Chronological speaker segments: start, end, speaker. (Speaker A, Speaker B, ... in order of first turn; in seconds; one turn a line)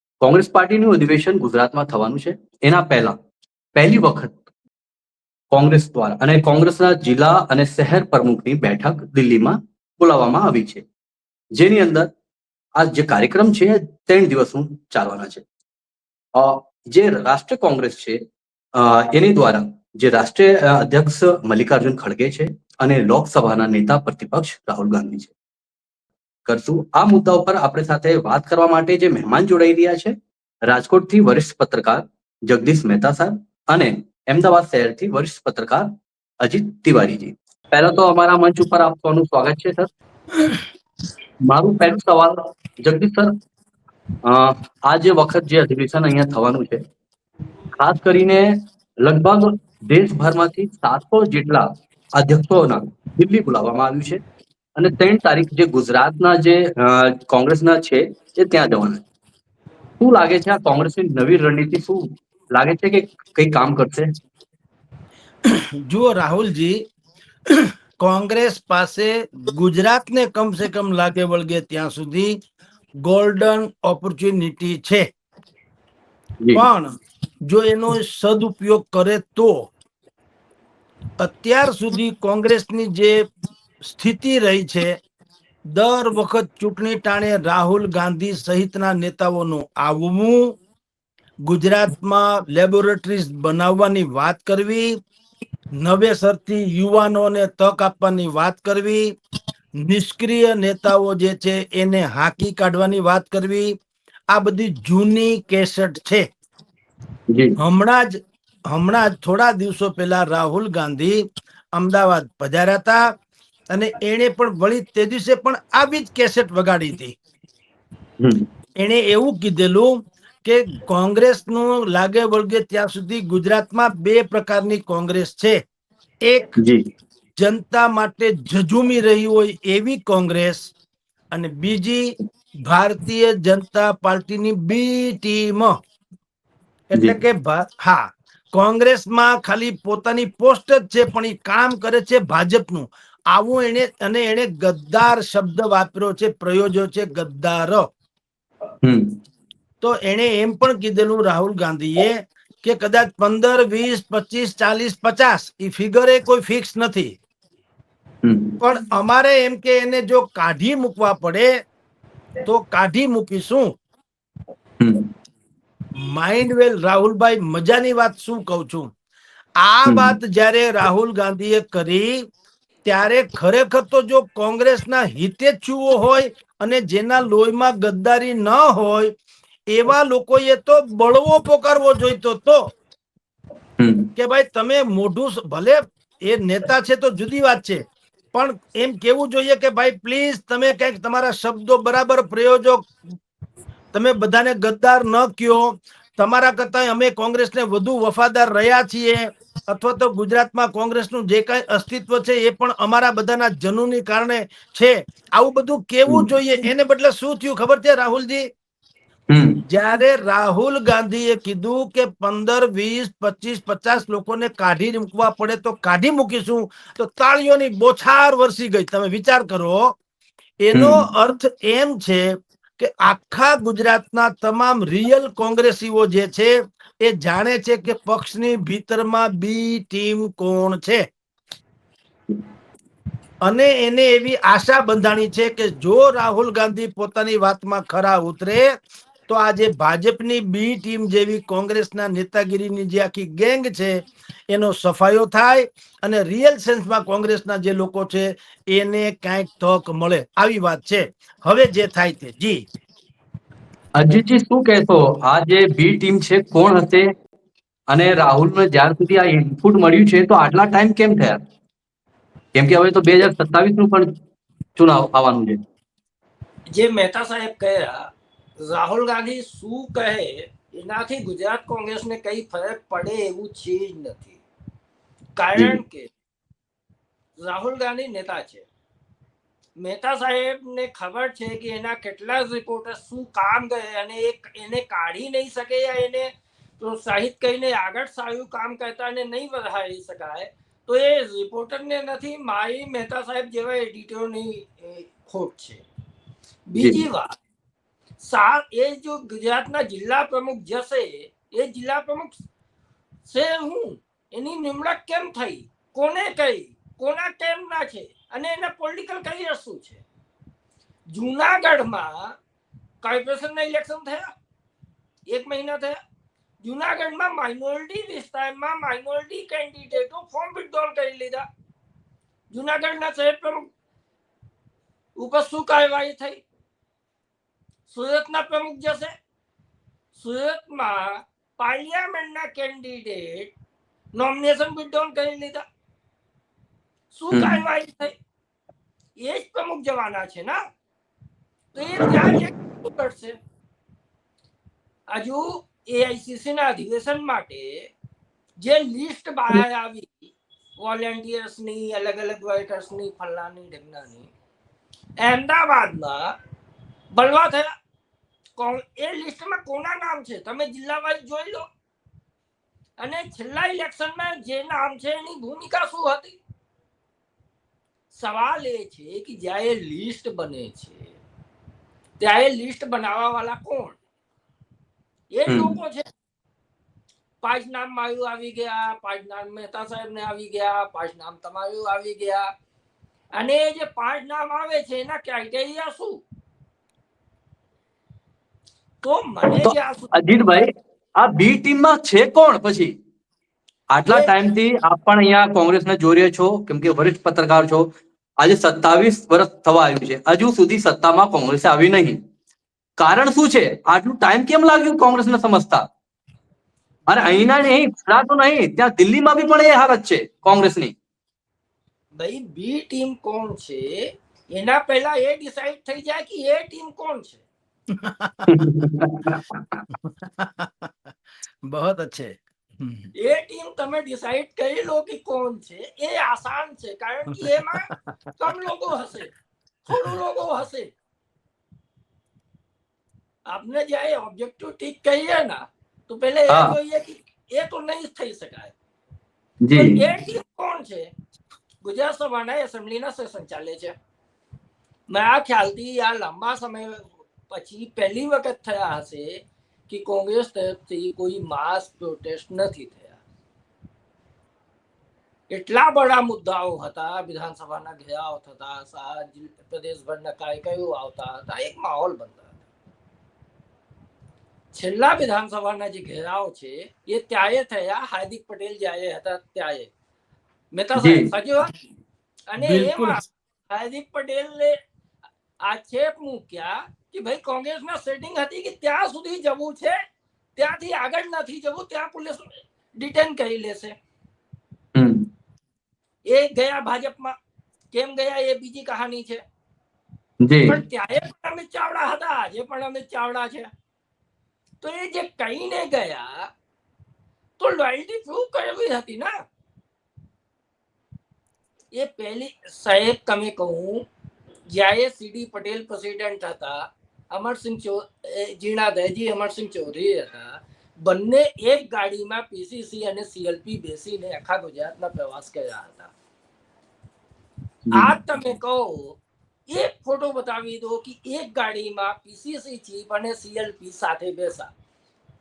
Speaker A: 0.2-3.2
Speaker A: 3.8-4.4
Speaker A: 5.5-10.8
Speaker A: 11.6-12.1
Speaker A: 12.8-15.4
Speaker A: 16.4-18.2
Speaker A: 18.8-25.3
Speaker A: 26.5-30.1
Speaker A: 30.7-39.9
Speaker A: 41.5-43.3
Speaker A: 44.2-46.8
Speaker A: 47.8-54.2
Speaker A: 54.8-59.0
Speaker A: 60.0-64.1
Speaker B: 65.5-66.8
Speaker B: 67.5-72.4
Speaker B: 73.0-75.1
Speaker B: 76.5-79.7
Speaker B: 81.2-83.2
Speaker B: 83.8-85.0
Speaker B: 85.7-90.6
Speaker B: 91.5-95.0
Speaker B: 95.8-99.1
Speaker B: 99.8-103.8
Speaker B: 104.3-106.3
Speaker A: 107.3-107.6
Speaker B: 107.6-108.2
Speaker B: 108.7-113.0
Speaker B: 113.7-117.2
Speaker A: 118.2-118.5
Speaker B: 118.8-125.6
Speaker B: 126.2-126.6
Speaker B: 127.4-130.7
Speaker B: 131.3-132.1
Speaker B: 132.7-135.7
Speaker B: 136.9-147.9
Speaker A: 148.8-149.2
Speaker B: 149.8-157.2
Speaker A: 158.2-158.6
Speaker B: 158.6-161.5
Speaker B: 162.4-163.8
Speaker A: 164.8-165.1
Speaker B: 165.9-168.9
Speaker B: 169.6-172.2
Speaker A: 169.9-170.2
Speaker B: 172.8-179.1
Speaker B: 179.7-182.7
Speaker A: 183.8-184.1
Speaker B: 184.2-192.9
Speaker B: 193.9-208.5
Speaker A: 209.3-209.6
Speaker B: 209.7-220.0
Speaker B: 220.6-231.1
Speaker A: 220.7-221.0
Speaker B: 233.4-238.7
Speaker B: 239.3-252.7
Speaker A: 253.9-257.1
Speaker A: 257.9-261.4
Speaker A: 262.6-264.1
Speaker A: 264.8-265.6
Speaker C: 266.7-268.1
Speaker C: 268.6-274.4
Speaker C: 275.4-276.1
Speaker C: 277.4-278.7
Speaker C: 279.8-295.8
Speaker C: 296.7-297.4
Speaker A: 296.8-297.0
Speaker C: 298.2-302.3
Speaker C: 303.3-310.0
Speaker C: 311.1-312.4
Speaker C: 313.0-314.2
Speaker C: 315.3-316.0
Speaker C: 316.6-321.4
Speaker C: 322.5-323.7
Speaker C: 325.2-326.4
Speaker C: 327.9-329.1
Speaker C: 330.1-333.5
Speaker C: 334.2-335.6
Speaker C: 337.1-338.1
Speaker A: 337.3-337.6
Speaker C: 339.2-340.6
Speaker C: 341.7-343.4
Speaker C: 345.1-347.9
Speaker C: 348.6-354.3
Speaker C: 355.2-356.3
Speaker C: 357.1-357.7
Speaker C: 358.6-361.6
Speaker C: 363.0-366.4
Speaker C: 368.1-371.1
Speaker C: 372.2-374.0
Speaker C: 375.3-376.1
Speaker C: 377.4-382.5
Speaker C: 383.4-386.2
Speaker C: 389.0-390.4
Speaker A: 389.6-390.7
Speaker A: 391.2-392.9
Speaker A: 393.9-397.9
Speaker C: 394.1-394.3
Speaker A: 398.4-402.2
Speaker A: 403.0-405.9
Speaker A: 407.1-410.9
Speaker C: 407.2-407.5
Speaker C: 412.2-414.0
Speaker C: 414.5-417.4
Speaker B: 417.9-418.6
Speaker A: 418.5-419.8
Speaker B: 419.9-420.9
Speaker B: 421.7-423.1
Speaker C: 423.2-429.3
Speaker C: 429.9-430.9
Speaker C: 433.5-438.7
Speaker A: 436.5-436.8
Speaker A: 439.6-440.0
Speaker C: 439.7-441.1
Speaker C: 441.8-443.9
Speaker C: 445.1-453.2
Speaker C: 455.5-462.5
Speaker C: 464.7-469.9
Speaker C: 470.7-471.7
Speaker A: 471.0-471.3
Speaker C: 472.5-474.8
Speaker B: 472.6-473.2
Speaker C: 475.6-479.9
Speaker C: 480.6-483.9
Speaker A: 484.9-485.3
Speaker C: 486.3-487.3
Speaker C: 487.9-489.4
Speaker A: 490.4-490.8
Speaker C: 490.7-493.7
Speaker C: 494.8-496.5
Speaker C: 497.6-499.3
Speaker C: 501.9-504.1
Speaker C: 504.7-516.1
Speaker C: 517.9-524.7